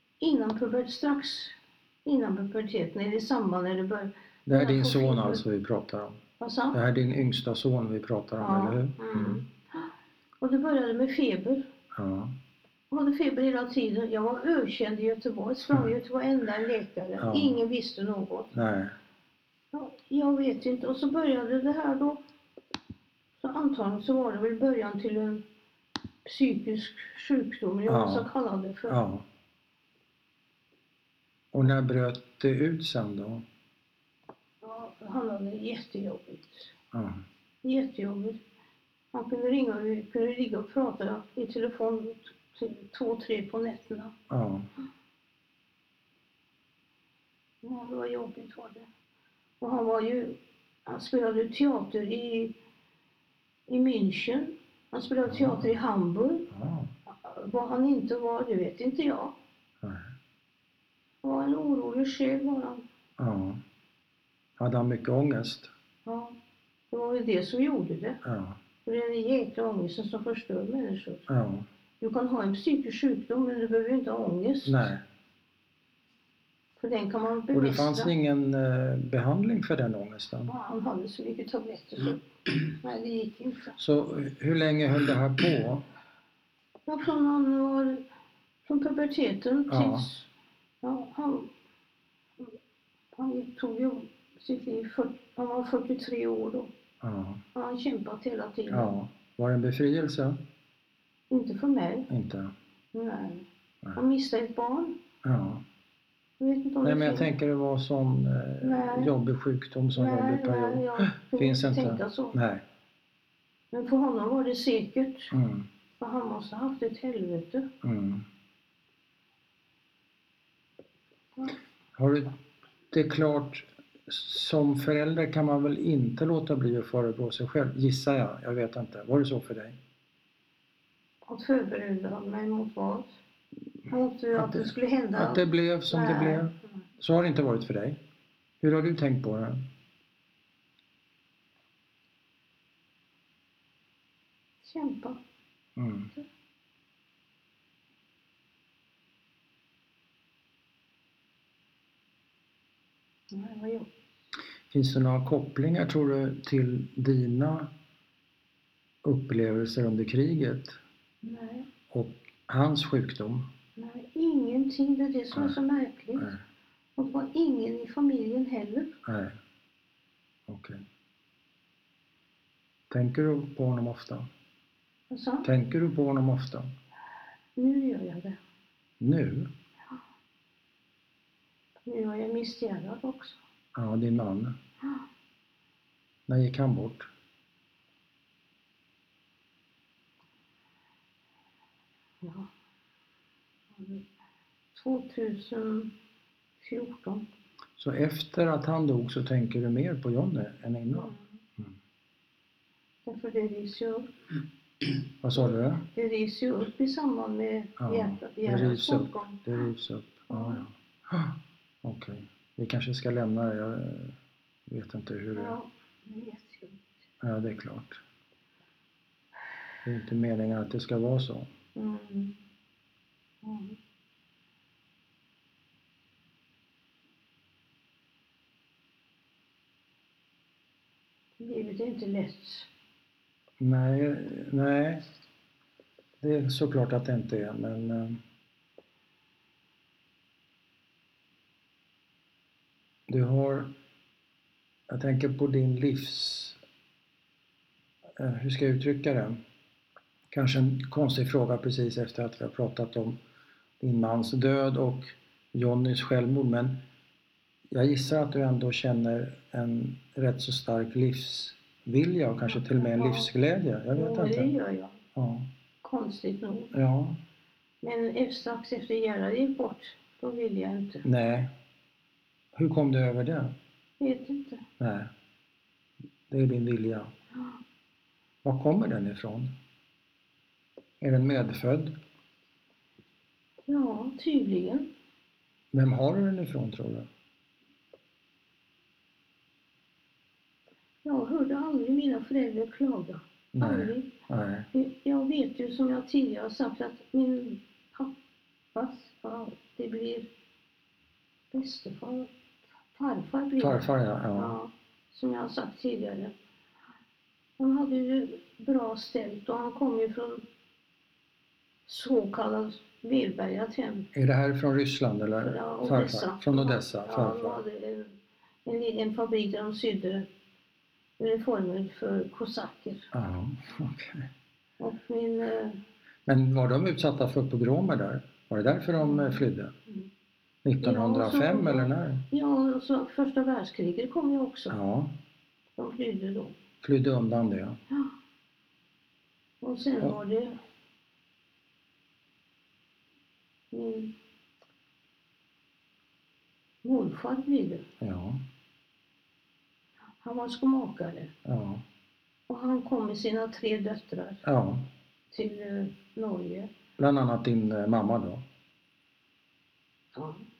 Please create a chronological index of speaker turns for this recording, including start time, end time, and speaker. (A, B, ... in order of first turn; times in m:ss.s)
0:00.2-0:05.4 A
0:04.5-0:06.2 B
0:06.4-0:06.8 A
0:06.7-0:09.4 B
0:08.4-0:09.9 A
0:10.4-0:11.7 A
0:11.9-0:12.3 B
0:12.9-0:18.5 A
0:17.2-0:17.6 B
0:18.5-0:18.9 B
0:19.7-0:22.2 A
0:23.4-0:25.4 A
0:26.2-0:29.0 A
0:27.9-0:28.3 B
0:28.9-0:29.2 B
0:31.5-0:33.4 B
0:34.6-0:36.7 A
0:36.9-0:37.2 B
0:37.6-0:38.4 A
0:39.1-0:44.1 A
0:44.3-0:44.6 B
0:47.6-0:48.9 A
0:49.6-0:52.5 A
0:53.7-0:56.5 A
0:55.3-0:55.7 B
0:56.5-0:56.9 B
0:57.1-0:59.4 A
0:59.8-1:00.1 B
1:01.2-1:02.8 A
1:03.2-1:03.6 B
1:04.6-1:05.7 B
1:06.0-1:06.4 A
1:06.9-1:08.2 A
1:08.2-1:08.6 B
1:08.8-1:11.2 A
1:11.3-1:11.6 B
1:12.0-1:14.8 A
1:14.6-1:15.0 B
1:16.8-1:18.1 A
1:17.5-1:20.5 B
1:20.5-1:23.8 A
1:23.8-1:25.8 B
1:26.8-1:28.0 A
1:28.6-1:30.3 A
1:29.7-1:30.1 B
1:30.8-1:31.5 A
1:33.1-1:36.7 A
1:37.0-1:37.4 B
1:37.5-1:38.9 A
1:38.7-1:40.4 B
1:41.3-1:42.1 A
1:42.1-1:42.5 B
1:42.9-1:45.0 A
1:45.2-1:45.6 B
1:46.4-1:47.3 A
1:46.8-1:52.6 B
1:48.6-1:49.1 A
1:49.9-1:52.4 A
1:53.7-1:55.3 A
1:55.3-1:55.6 B
1:56.0-1:57.7 A
1:57.8-1:58.2 B
2:02.0-2:02.3 B
2:02.9-2:09.8 B
2:11.2-2:13.1 A
2:13.9-2:16.5 A
2:14.3-2:18.0 B
2:18.6-2:19.6 B
2:24.6-2:25.2 A
2:25.8-2:26.1 B
2:33.3-2:33.9 A
2:34.7-2:37.7 B
2:39.0-2:40.8 B
2:41.2-2:41.7 A
2:41.9-2:43.4 B
2:43.8-2:46.3 A
2:47.0-2:48.9 A
2:49.0-2:49.3 B
2:50.5-2:50.8 B
2:52.9-2:54.3 B
2:55.1-2:55.5 A
2:55.4-2:56.7 B
2:57.6-2:58.4 A
2:59.0-2:59.5 B
3:01.8-3:03.4 A
3:03.7-3:04.5 B
3:06.3-3:07.1 B
3:12.2-3:12.5 A
3:13.7-3:14.0 A
3:14.7-3:15.9 A
3:16.6-3:17.2 A
3:17.8-3:21.7 B
3:20.9-3:21.2 A
3:23.0-3:24.1 A
3:25.2-3:25.8 B
3:25.3-3:29.4 A
3:27.8-3:34.2 B
3:30.3-3:30.6 A
3:34.7-3:35.6 B
3:35.3-3:36.8 A
3:37.2-3:38.0 B
3:39.8-3:41.5 B
3:41.7-3:42.3 A
3:43.4-3:43.8 A
3:51.4-3:52.7 A
3:53.6-3:55.0 B
3:56.2-3:58.2 B
4:03.1-4:03.7 B
4:04.9-4:06.6 B
4:08.2-4:09.4 B
4:10.3-4:13.2 B
4:13.8-4:16.8 B
4:17.7-4:24.5 B
4:22.5-4:23.3 A
4:23.9-4:25.0 A
4:25.1-4:25.5 B
4:25.8-4:26.7 A
4:26.7-4:27.2 B
4:27.8-4:31.0 A
4:31.0-4:31.5 B
4:32.6-4:33.5 B
4:34.0-4:34.6 A
4:34.8-4:35.1 B
4:36.3-4:37.1 B
4:38.4-4:39.5 B
4:41.0-4:41.9 B
4:43.7-4:44.9 A
4:45.7-4:47.1 B
4:51.0-4:54.1 A
4:53.5-4:54.7 B
4:54.7-4:58.1 A
4:58.7-5:00.3 A
5:01.5-5:02.3 A
5:02.9-5:06.3 A
5:03.6-5:04.6 B
5:07.6-5:10.4 A
5:11.8-5:14.1 A
5:14.1-5:17.6 B
5:15.4-5:18.1 A
5:18.6-5:20.3 A
5:21.2-5:23.1 A
5:23.1-5:24.3 B
5:24.8-5:25.8 A
5:26.2-5:29.7 B
5:29.0-5:29.4 A
5:30.6-5:32.2 B
5:30.8-5:34.7 A
5:34.7-5:35.1 B
5:35.8-5:36.6 A
5:36.8-5:37.8 B
5:39.6-5:40.5 A
5:43.7-5:44.1 A
5:46.8-5:47.8 A
5:48.0-5:48.4 B
5:50.2-5:51.3 A
5:51.4-5:51.8 B
5:52.5-5:54.4 A
5:54.4-5:54.8 B
5:55.3-5:56.7 A
5:57.0-5:58.4 B
6:00.1-6:00.4 A